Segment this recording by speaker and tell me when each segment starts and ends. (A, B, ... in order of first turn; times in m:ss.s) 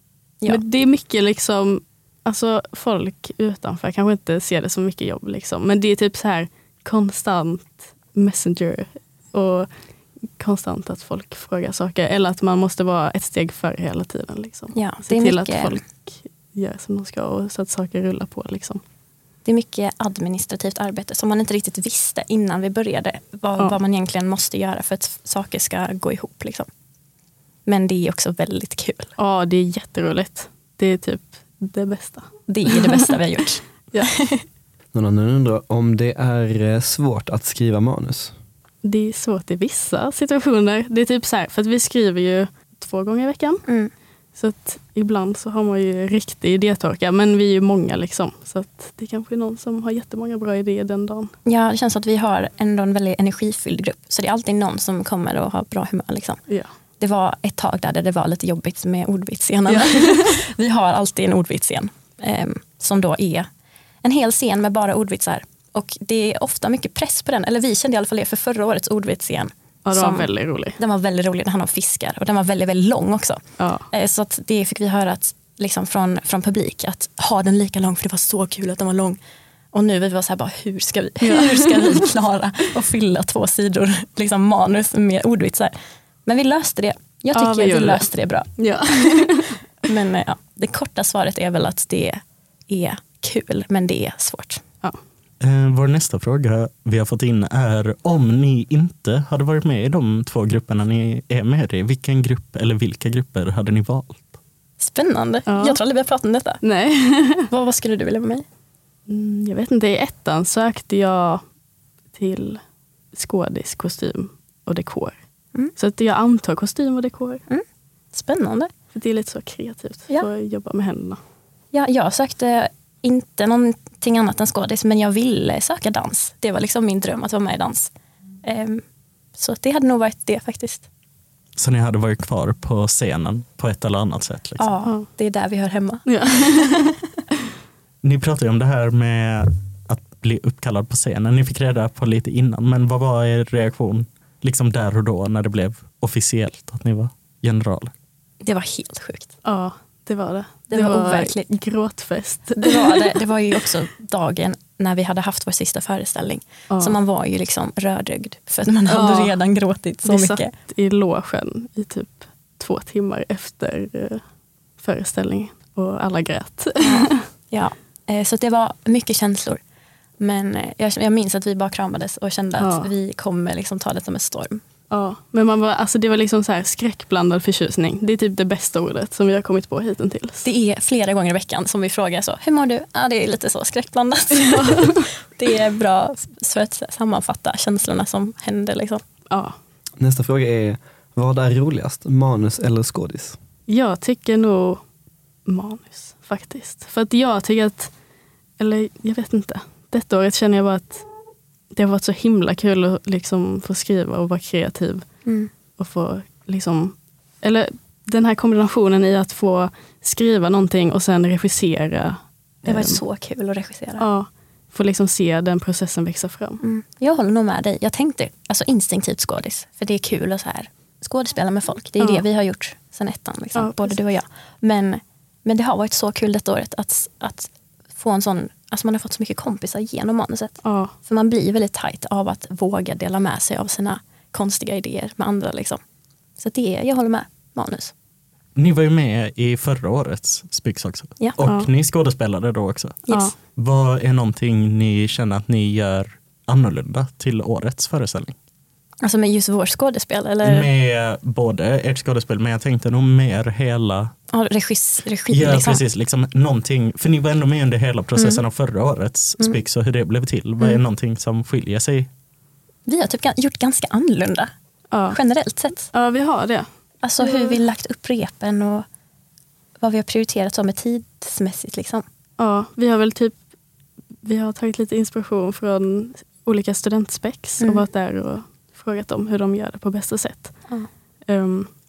0:00.5-0:09.7 A
0:10.4-0:18.8 A
0:14.7-0:15.8 B
0:19.4-0:26.7 B
0:27.7-0:29.1 B
0:29.2-0:33.1 A
0:32.5-0:34.4 B
0:34.9-0:38.4 C
0:38.8-0:43.6 A
0:43.7-0:43.9 B
0:44.4-0:51.3 A
0:51.4-0:56.4 B
0:57.0-1:03.5 B
0:59.7-1:00.3 A
1:04.0-1:19.2 B
1:09.8-1:10.8 A
1:13.6-1:13.9 A
1:19.7-1:28.5 B
1:21.2-1:22.0 A
1:27.3-1:29.6 A
1:29.9-1:34.6 B
1:35.4-1:44.2 D
1:44.8-1:46.6 B
1:45.5-1:45.8 A
1:46.6-1:47.5 A
1:47.5-1:48.4 B
1:49.1-1:51.4 A
1:52.1-1:52.6 A
1:53.1-1:57.4 A
1:57.5-1:58.7 B
1:58.9-2:01.2 A
2:01.7-2:07.9 B
2:08.4-2:08.8 B
2:09.3-2:10.9 B
2:11.6-2:14.7 D
2:14.6-2:16.8 B
2:16.1-2:16.9 A
2:18.0-2:27.9 D
2:28.4-2:29.3 B
2:29.4-2:33.1 A
2:30.7-2:31.5 B
2:32.6-2:40.5 B
2:36.7-2:37.0 A
2:38.9-2:39.4 A
2:40.0-2:44.2 A
2:44.8-2:47.3 A
2:46.8-2:49.6 B
2:50.2-2:54.6 B
2:52.6-2:52.9 A
2:54.9-3:00.4 A
3:00.4-3:09.0 B
3:04.5-3:05.0 A
3:09.3-3:09.6 A
3:10.0-3:13.4 C
3:13.7-3:14.8 A
3:15.4-3:17.9 A
3:18.6-3:21.0 A
3:21.7-3:25.1 A
3:25.2-3:25.5 B
3:25.8-3:33.0 A
3:32.6-3:34.1 B
3:34.0-3:36.6 A
3:36.6-3:55.8 B
3:42.0-3:42.2 A
3:43.6-3:44.0 A
3:50.6-3:50.9 A
3:56.4-3:57.9 B
3:58.6-4:08.4 D
4:01.4-4:01.7 A
4:03.1-4:03.3 B
4:09.0-4:10.7 B
4:10.4-4:14.1 D
4:14.3-4:15.8 B
4:15.3-4:22.1 D
4:18.2-4:18.4 B
4:22.9-4:24.5 B
4:24.9-4:25.2 A
4:25.1-4:25.9 B
4:25.8-4:26.7 A
4:27.0-4:28.8 B
4:27.2-4:27.6 A
4:29.8-4:32.0 B
4:32.4-4:33.4 A
4:34.2-4:40.8 A
4:37.6-4:37.9 B
4:41.3-4:41.7 A